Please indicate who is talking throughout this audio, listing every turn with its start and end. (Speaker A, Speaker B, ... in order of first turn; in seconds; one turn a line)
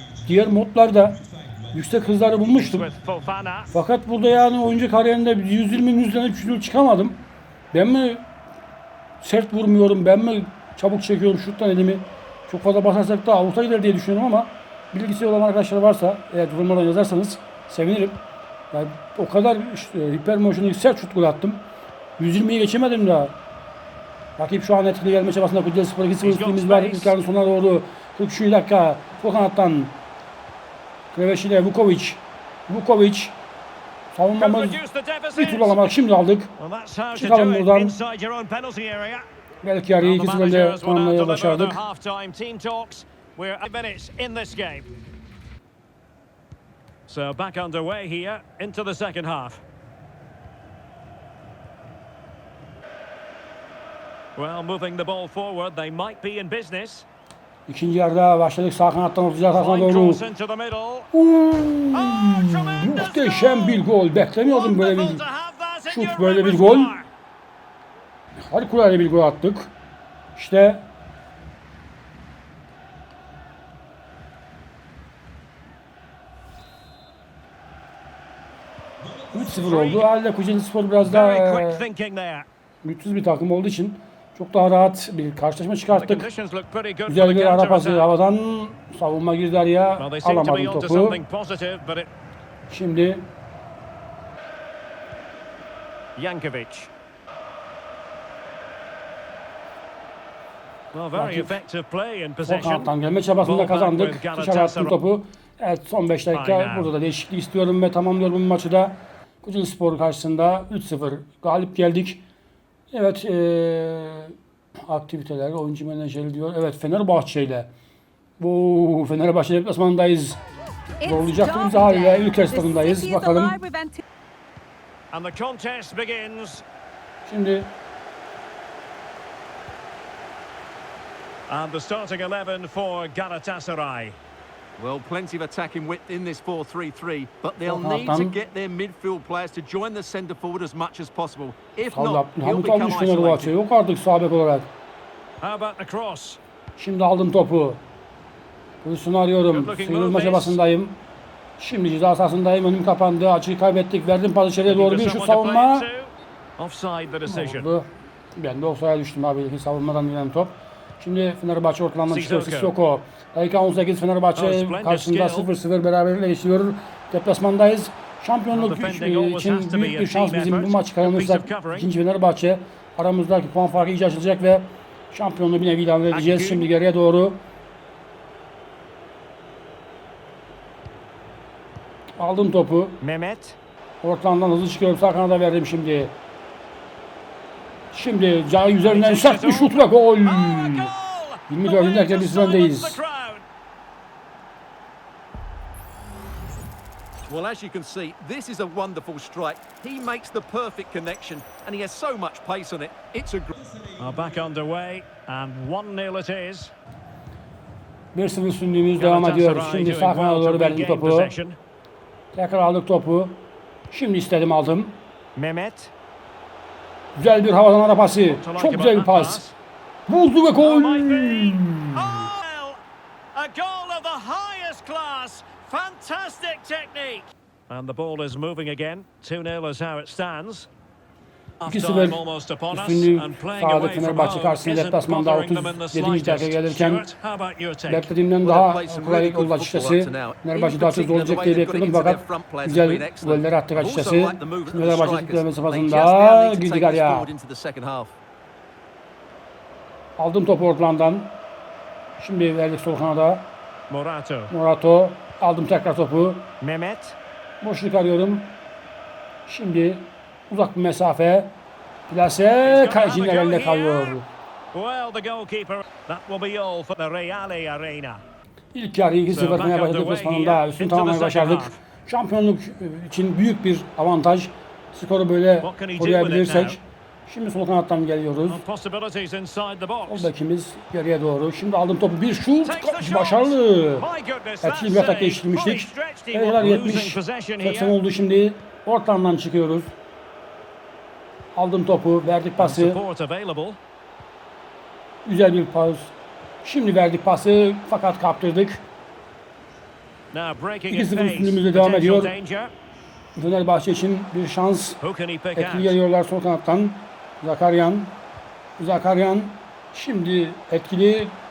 Speaker A: 0.2-2.9
Speaker B: 2.5-3.7
Speaker A: 3.7-7.2
Speaker A: 7.7-8.2
Speaker A: 9.2-18.2
Speaker A: 18.7-21.6
Speaker A: 22.2-23.4
Speaker A: 24.4-30.0
Speaker B: 26.2-27.1
Speaker A: 31.1-33.4
Speaker A: 34.1-34.8
Speaker B: 34.4-35.9
Speaker A: 35.4-36.5
Speaker B: 36.6-39.3
Speaker A: 37.1-38.0
Speaker A: 39.6-41.8
Speaker B: 40.0-44.9
Speaker B: 47.1-49.6
Speaker B: 54.4-57.1
Speaker A: 57.7-60.2
Speaker B: 59.5-61.1
Speaker A: 61.1-65.2
Speaker B: 61.9-63.8
Speaker B: 64.4-67.1
Speaker A: 65.9-67.0
Speaker A: 68.5-69.7
Speaker A: 70.4-70.8
Speaker B: 79.0-80.1
Speaker A: 79.3-81.8
Speaker B: 81.0-82.5
Speaker A: 82.8-86.3
Speaker B: 85.9-88.1
Speaker A: 87.1-91.2
Speaker B: 90.0-92.1
Speaker A: 92.7-93.3
Speaker B: 96.2-96.9
Speaker B: 100.9-102.9
Speaker A: 101.2-101.6
Speaker A: 102.5-112.2
Speaker B: 103.4-105.0
Speaker B: 106.3-106.9
Speaker A: 112.9-117.7
Speaker A: 118.4-120.4
Speaker C: 121.0-124.0
Speaker A: 121.0-123.6
Speaker B: 125.1-126.6
Speaker A: 127.2-127.7
Speaker B: 131.5-134.2
Speaker D: 134.8-143.6
Speaker A: 137.7-138.3
Speaker A: 141.9-144.7
Speaker B: 145.4-146.4
Speaker A: 146.8-147.8
Speaker A: 148.8-151.0
Speaker B: 149.5-150.6
Speaker A: 151.6-155.9
Speaker B: 154.7-157.7
Speaker A: 157.3-177.4
Speaker B: 162.1-162.7
Speaker B: 164.4-165.5
Speaker B: 168.5-171.9
Speaker B: 176.1-176.7
Speaker A: 182.2-183.0
Speaker B: 183.0-183.6
Speaker A: 184.0-186.1
Speaker A: 187.9-190.9
Speaker B: 188.8-193.4
Speaker A: 191.5-193.0
Speaker D: 197.3-203.6
Speaker B: 204.0-206.7
Speaker A: 208.1-211.3
Speaker B: 209.0-211.6
Speaker A: 212.3-213.4
Speaker A: 213.9-215.0
Speaker B: 215.4-215.9
Speaker A: 217.2-219.4
Speaker B: 218.2-219.6
Speaker A: 220.1-222.3
Speaker B: 220.6-222.8
Speaker B: 223.3-230.7
Speaker B: 231.6-238.1
Speaker A: 231.7-237.1
Speaker A: 237.9-247.3
Speaker D: 238.4-248.1
Speaker A: 250.2-251.3
Speaker A: 252.2-253.5
Speaker B: 253.9-254.5
Speaker A: 254.5-256.5
Speaker B: 256.6-257.2
Speaker A: 257.6-258.6
Speaker A: 259.5-261.5
Speaker A: 262.1-264.3
Speaker B: 262.6-264.2
Speaker B: 264.7-268.2
Speaker A: 268.7-278.6
Speaker B: 269.3-271.8
Speaker B: 275.6-276.8
Speaker B: 278.5-280.3
Speaker A: 280.1-284.1
Speaker B: 282.6-288.0
Speaker A: 284.6-289.9
Speaker A: 291.6-293.0
Speaker B: 292.6-293.8
Speaker A: 295.2-298.8
Speaker B: 300.3-302.7
Speaker A: 300.9-302.3
Speaker A: 303.4-305.0
Speaker B: 305.0-306.0
Speaker A: 305.6-308.2
Speaker A: 308.8-311.4